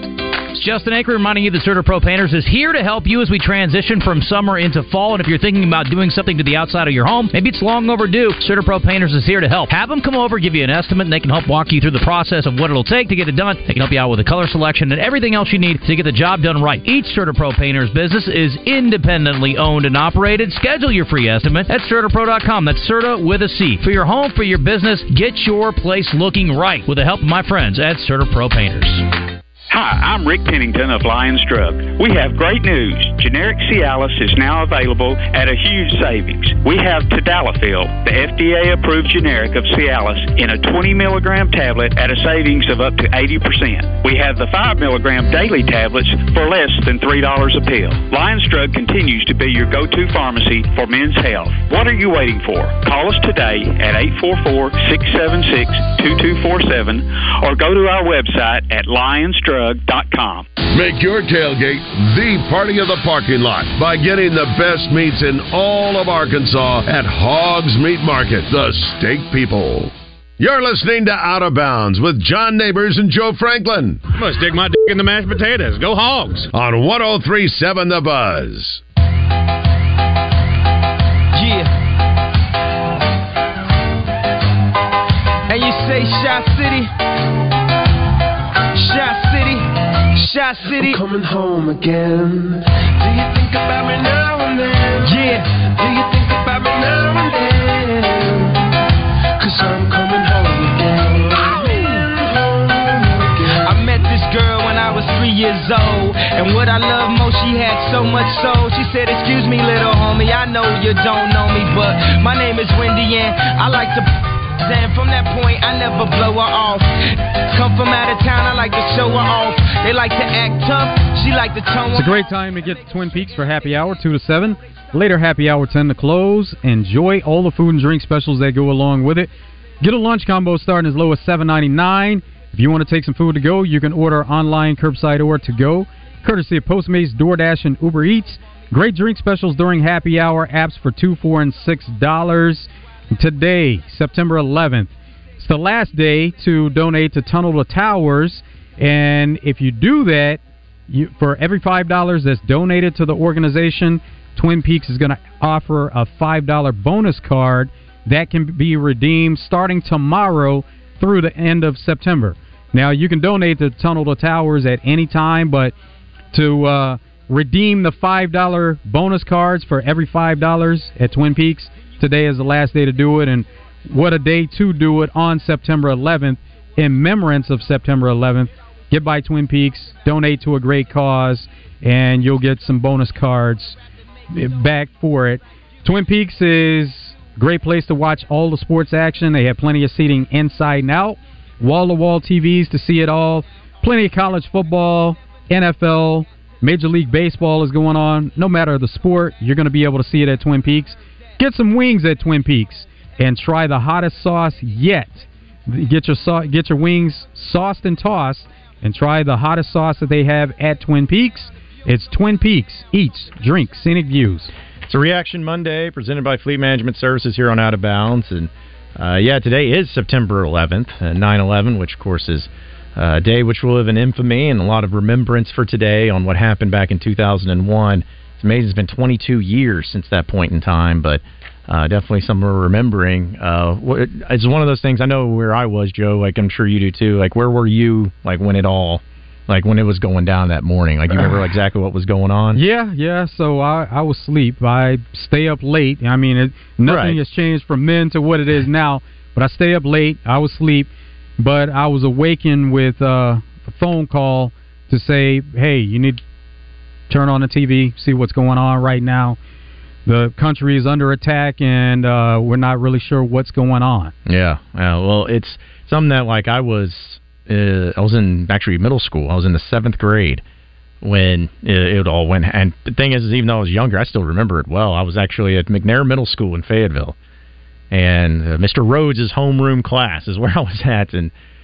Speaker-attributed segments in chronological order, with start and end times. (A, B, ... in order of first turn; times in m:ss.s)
0:00.5-0:29.0 A
0:29.7-1:00.5 B
1:00.7-1:14.0 C
1:14.1-1:16.5 D
1:16.5-1:18.8 C
1:30.6-1:38.7 E
1:39.4-1:43.8 E
1:44.4-1:44.7 F
1:46.6-1:47.7 F
1:48.4-1:51.9 F
1:52.4-1:53.2 F
1:54.9-1:56.7 F
1:57.9-1:58.6 F
2:00.2-2:01.8 F
2:02.0-2:09.3 G
2:09.8-2:45.7 G
2:46.3-3:03.8 G
3:04.3-3:34.5 G
3:34.9-4:02.6 H
4:02.5-4:16.2 G
4:06.8-4:07.2 H
4:17.1-4:19.4 G
4:20.1-4:24.1 G
4:24.3-4:30.4 H
4:31.0-4:37.2 H
4:37.9-4:41.3 H